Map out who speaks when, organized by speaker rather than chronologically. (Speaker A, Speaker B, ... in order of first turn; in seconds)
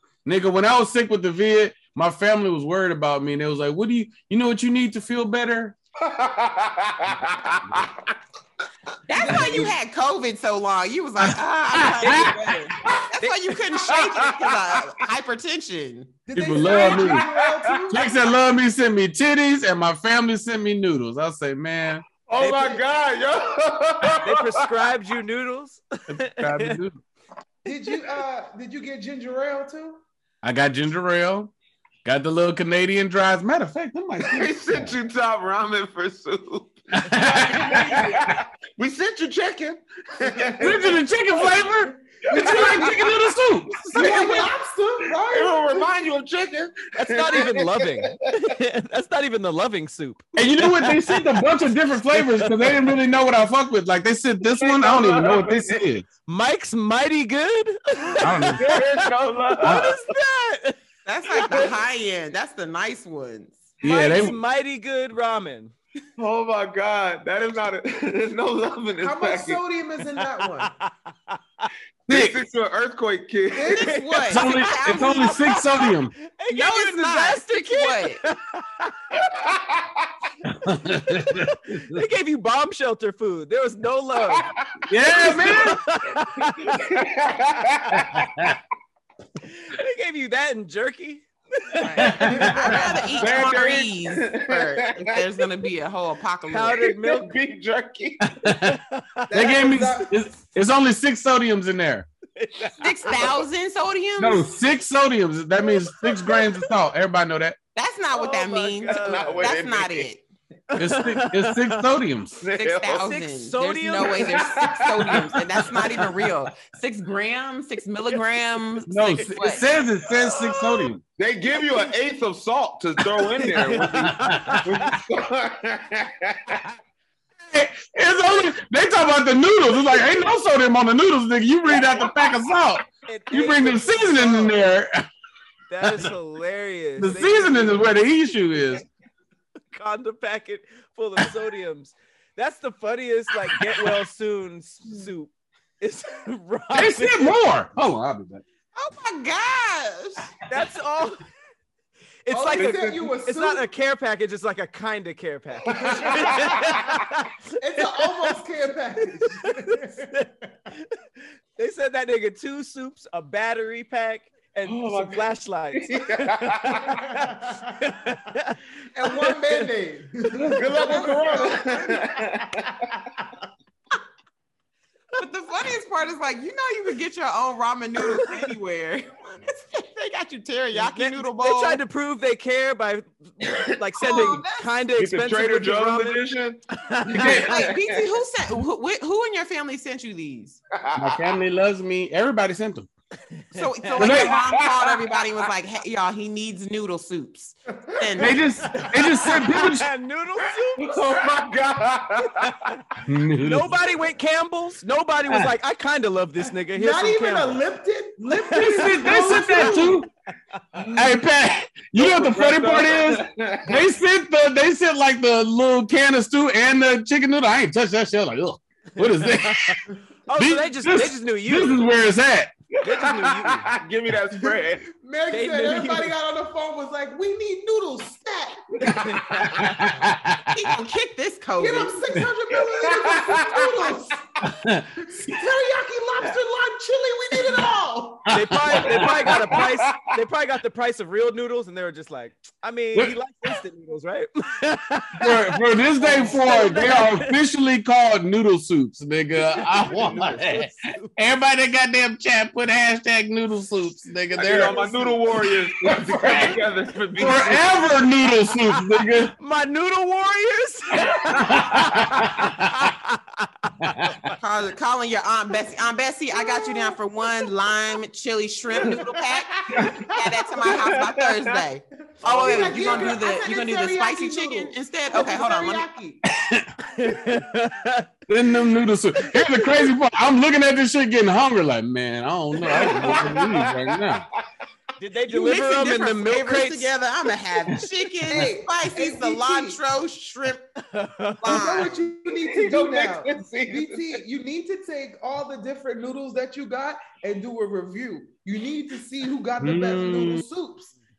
Speaker A: 0.2-5.8, 11.2-12.5, 16.3-17.2, 17.9-22.1, 26.1-27.0, 30.4-31.5, 32.0-34.9, 37.0-38.4, 40.6-44.4, 50.4-56.1, 58.2-58.7, 59.6-60.0, 63.8-64.4, 72.1-72.4, 74.3-76.1, 80.5-82.0, 84.9-85.8, 88.0-88.6, 92.0-92.8, 98.2-98.8, 99.3-102.1, 104.2-107.6, 110.8-112.4, 118.9-121.0, 124.1-124.7, 127.5-135.1, 135.8-136.1, 137.0-138.8, 143.5-143.8, 146.7-148.4, 187.2-187.5, 191.0-192.9, 194.0-194.4, 198.2-199.9, 203.1-203.8, 205.3-205.5, 208.5-210.1, 210.9-219.8, 220.4-222.5, 229.5-230.5, 234.4-235.3, 238.3-239.6, 245.2-254.8, 255.8-256.6, 257.2-259.3, 261.1-262.9, 263.8-264.3, 276.3-276.7, 278.3-284.2, 299.6-300.5
Speaker B: 6.0-8.1, 13.8-14.8, 16.6-17.9, 22.3-24.7, 34.2-41.0, 42.2-43.2, 44.0-44.5, 45.2-48.4, 54.6-55.8, 58.5-60.0, 66.2-69.6, 72.1-73.9, 79.3-80.1, 84.2-85.5, 86.7-88.3, 93.2-95.2, 96.8-98.3, 109.0-110.1, 112.4-113.1, 114.2-114.8, 121.2-126.6, 152.5-153.1, 155.8-156.8, 164.7-166.8, 170.4-172.8, 183.4-184.4, 184.9-188.0, 190.8-191.2, 194.2-195.1, 200.8-202.8, 210.8-211.2, 212.0-213.8, 222.8-224.9, 232.5-234.0, 238.9-240.2, 254.4-257.9, 270.6-271.6, 282.6-284.2, 292.3-294.2
Speaker C: 9.1-16.2, 61.0-63.7, 73.7-75.8, 76.5-78.2, 91.8-96.9, 102.8-104.5, 107.8-110.2, 112.5-119.6, 148.8-150.3, 175.2-181.8, 184.0-184.7, 187.2-190.6, 193.5-198.4, 230.5-232.1, 264.4-275.9, 285.3-290.7, 291.4-291.9
Speaker D: 9.2-9.8, 16.3-18.1, 27.6-30.0, 42.3-43.0, 43.9-45.9, 69.0-70.7, 73.5-73.9, 92.2-92.8, 99.3-100.1, 152.3-153.7, 155.8-156.6, 157.6-160.1, 167.1-167.6, 168.9-172.5, 197.9-198.3, 206.7-210.1, 224.4-229.5, 231.6-238.3, 266.5-266.9, 268.7-270.0, 272.2-276.2, 288.3-289.8, 291.4-300.9
Speaker E: 12.0-13.5, 22.4-22.8, 24.2-26.8, 47.0-51.5, 52.1-52.8, 56.2-60.8, 61.3-61.7, 63.8-65.7, 70.2-71.7, 73.9-78.9, 81.1-84.5, 85.2-86.9, 89.4-92.9, 96.5-97.3, 98.5-99.7, 102.4-103.4, 105.7-106.7, 108.1-109.5, 110.7-111.9, 113.0-114.5, 115.6-116.1, 118.8-120.9, 121.5-121.9, 123.1-125.0, 133.0-134.6, 135.7-137.8, 139.7-147.3, 150.5-151.2, 152.2-158.4, 159.2-161.0, 161.6-169.7, 178.2-178.4, 180.8-187.5, 193.3-194.2, 198.7-201.0, 202.2-207.6, 208.3-210.8, 219.0-221.8, 222.8-223.7, 225.3-226.1, 228.9-229.9, 238.3-247.4, 249.4-251.1, 254.5-255.2, 258.5-264.4, 272.5-273.0, 276.8-278.1, 279.2-279.9, 285.0-286.9, 290.8-291.9